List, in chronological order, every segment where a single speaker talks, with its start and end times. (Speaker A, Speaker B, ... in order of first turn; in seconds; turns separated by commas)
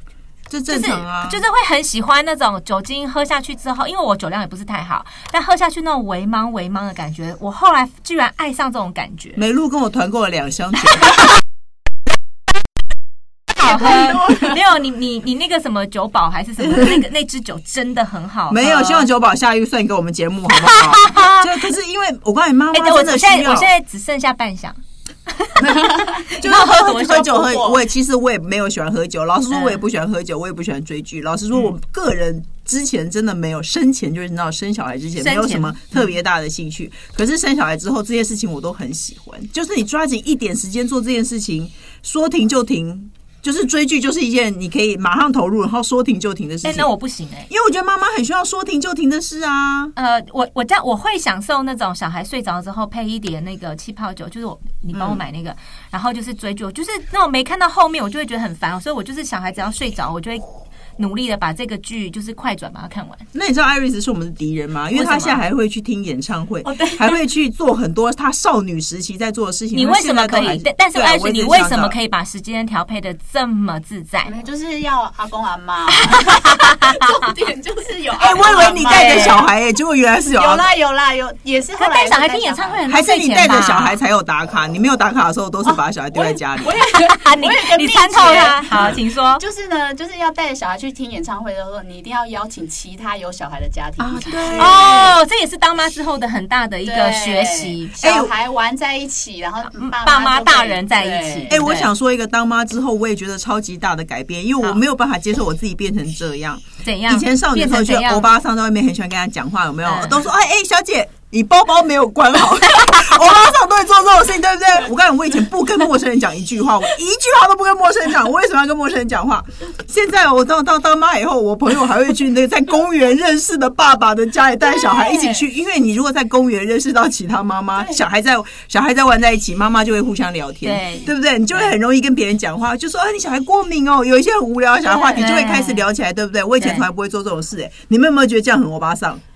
Speaker A: 0.5-1.4, Speaker B: 0.7-9.4, Speaker A: 9.3-11.3, Speaker B: 13.5-19.1, Speaker C: 13.6-14.5, Speaker A: 16.6-17.0, Speaker A: 18.5-23.7, Speaker B: 20.5-21.5, Speaker B: 22.7-24.8, Speaker B: 25.3-27.4, Speaker A: 25.6-46.9, Speaker C: 25.9-27.8, Speaker B: 29.5-29.8, Speaker B: 35.2-36.0, Speaker B: 46.6-47.5, Speaker A: 47.5-49.9, Speaker B: 50.0-60.4, Speaker A: 54.9-55.2, Speaker B: 61.0-63.2, Speaker A: 63.3-72.0, Speaker B: 64.9-65.4, Speaker C: 66.6-67.2, Speaker B: 69.7-74.3, Speaker C: 74.2-79.5, Speaker B: 75.9-77.2, Speaker A: 78.2-80.6, Speaker B: 78.9-79.4, Speaker C: 80.3-82.8, Speaker B: 81.8-84.0, Speaker A: 82.9-86.8, Speaker C: 85.6-95.1, Speaker B: 86.9-89.4, Speaker A: 94.0-95.1, Speaker B: 94.5-98.0, Speaker C: 96.8-101.6, Speaker A: 98.0-98.3, Speaker B: 99.7-101.9, Speaker A: 101.5-139.2, Speaker B: 106.8-108.3, Speaker B: 109.8-110.2, Speaker C: 124.6-125.4, Speaker C: 127.8-128.0, Speaker B: 130.6-131.1, Speaker C: 134.8-135.3, Speaker B: 135.2-135.8, Speaker B: 136.6-136.8